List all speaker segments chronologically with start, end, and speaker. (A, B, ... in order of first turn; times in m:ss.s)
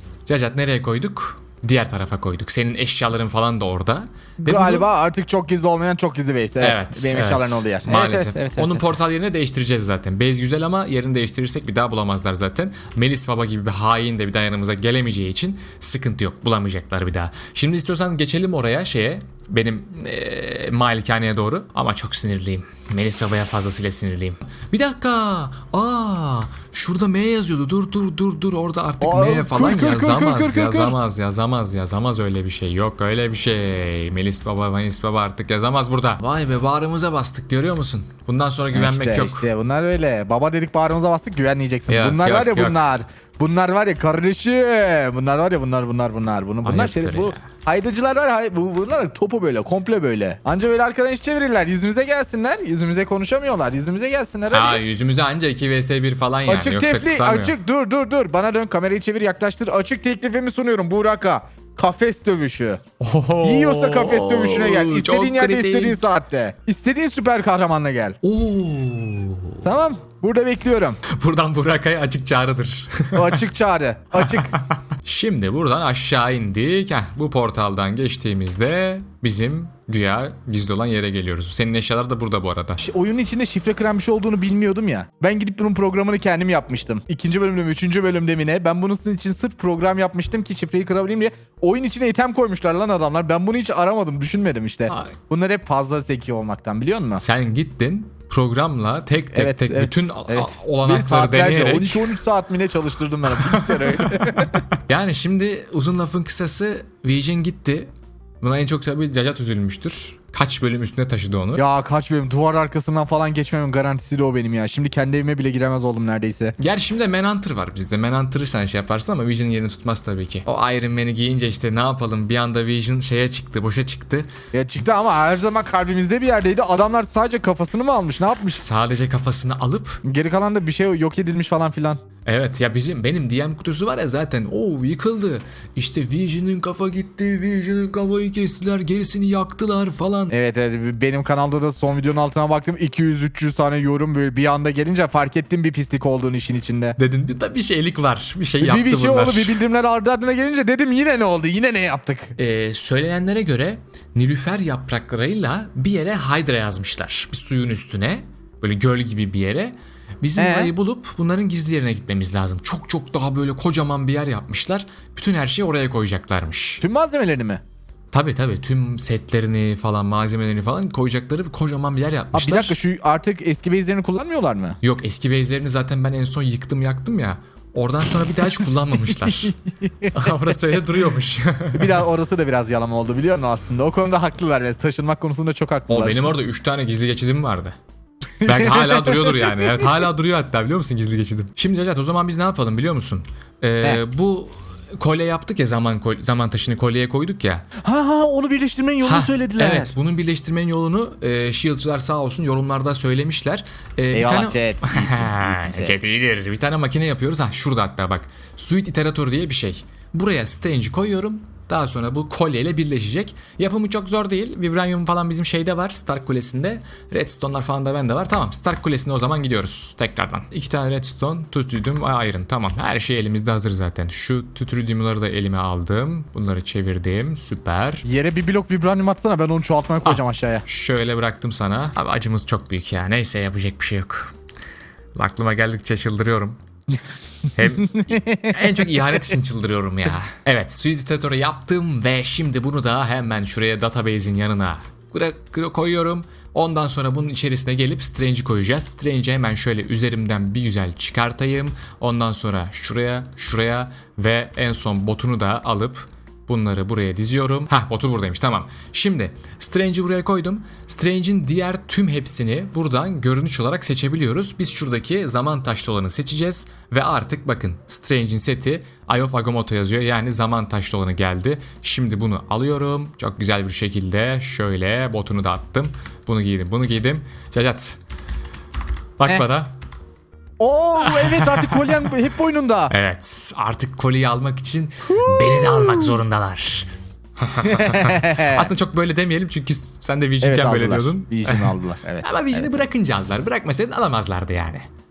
0:00.3-0:04.9 A
0:04.4-0:09.0 B
0:06.6-0:39.5 A
0:29.0-0:31.0 B
0:38.7-0:54.8 B
0:41.9-0:42.9 A
0:46.6-0:47.4 A
0:54.5-0:57.6 A
0:56.5-1:02.8 B
1:03.0-1:06.1 A
1:03.4-1:08.2 B
1:08.2-1:09.7 A
1:09.6-1:11.0 B
1:11.0-1:13.4 A
1:13.1-1:14.6 B
1:14.2-1:22.8 A
1:22.8-1:37.2 B
1:34.9-1:35.2 A
1:37.2-1:42.2 A
1:39.3-1:44.6 B
1:43.5-1:44.2 A
1:44.7-1:51.6 A
1:51.6-1:56.6 B
1:56.6-2:04.3 A
2:04.5-2:08.6 B
2:08.5-2:10.0 A
2:10.0-2:12.0 B
2:12.2-2:20.3 A
2:20.3-2:27.0 B
2:27.0-2:29.6 A
2:28.6-2:32.4 B
2:32.4-2:46.8 A
2:40.4-2:40.7 B
2:46.8-2:47.6 B
2:48.1-2:52.8 A
2:52.3-2:54.8 B
2:54.8-3:02.0 A
2:59.1-3:00.1 B
3:01.7-3:06.3 B
3:05.9-3:07.8 A
3:08.4-3:10.0 B
3:08.4-3:17.7 A
3:17.8-3:19.9 B
3:19.0-3:48.1 A
3:24.1-3:26.0 B
3:48.0-3:50.6 B
3:50.0-3:54.3 A
3:55.2-3:56.6 A
3:57.5-4:38.0 A
3:57.8-3:58.9 B
4:39.2-4:39.7 A
4:40.6-4:42.9 B
4:41.0-4:42.1 A
4:42.9-4:54.8 A
4:45.1-4:46.2 B
4:47.6-4:48.7 B
4:50.4-4:52.9 B